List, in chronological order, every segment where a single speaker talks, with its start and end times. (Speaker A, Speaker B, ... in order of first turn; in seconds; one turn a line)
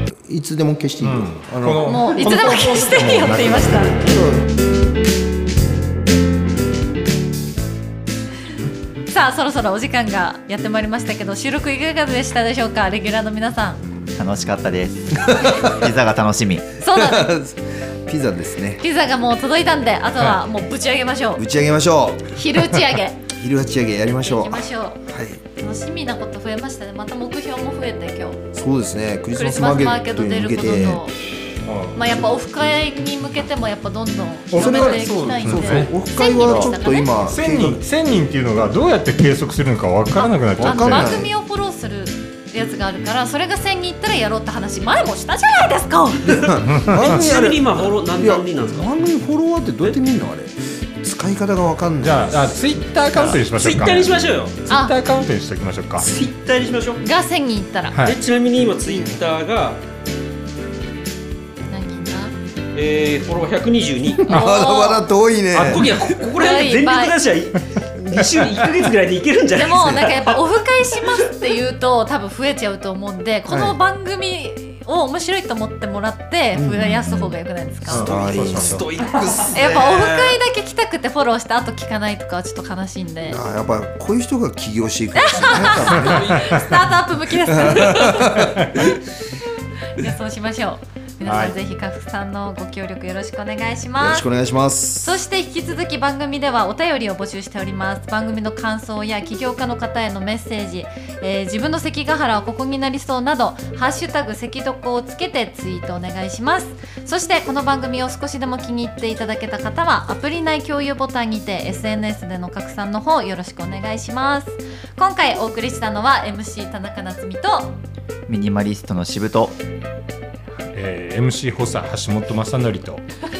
Speaker A: 0.2-2.3
Speaker B: 1.0-4.3
Speaker C: 1.8-4.0
Speaker A: 4.0-4.5
Speaker C: 9.1-13.8
Speaker D: 14.2-16.7
Speaker A: 15.1-15.9
Speaker C: 16.8-17.3
Speaker A: 16.9-18.8
Speaker C: 18.8-21.4
Speaker A: 21.4-22.4
Speaker C: 22.3-23.2
Speaker A: 23.3-25.4
Speaker C: 24.2-25.0
Speaker C: 25.6-28.4
Speaker A: 28.5-31.0
Speaker C: 29.3-31.2
Speaker B: 31.6-32.0
Speaker C: 31.9-37.4
Speaker B: 34.5-35.9
Speaker A: 34.5-37.8
Speaker B: 37.3-41.2
Speaker C: 40.1-46.5
Speaker A: 40.6-41.3
Speaker A: 46.3-52.5
Speaker B: 46.5-47.2
Speaker E: 46.9-48.9
Speaker B: 52.0-54.1
Speaker E: 53.5-54.6
Speaker B: 54.7-56.1
Speaker C: 54.7-55.0
Speaker E: 56.0-57.0
Speaker C: 57.0-58.0
Speaker B: 57.9-58.2
Speaker E: 58.0-59.8
Speaker C: 61.7-62.4
Speaker E: 62.7-70.4
Speaker A: 64.2-66.0
Speaker C: 66.1-67.2
Speaker C: 69.5-78.1
Speaker A: 69.7-70.2
Speaker A: 73.5-73.8
Speaker A: 76.5-77.4
Speaker B: 77.9-78.9
Speaker A: 77.9-79.6
Speaker E: 77.9-80.4
Speaker C: 79.4-83.4
Speaker A: 83.3-86.4
Speaker C: 85.2-89.0
Speaker E: 85.8-86.7
Speaker B: 86.5-86.8
Speaker A: 87.5-89.0
Speaker E: 87.8-88.2
Speaker B: 88.4-88.9
Speaker C: 89.9-94.2
Speaker B: 91.2-91.6
Speaker A: 94.0-95.2
Speaker C: 95.0-117.7
Speaker D: 118.3-119.6
Speaker B: 120.7-123.0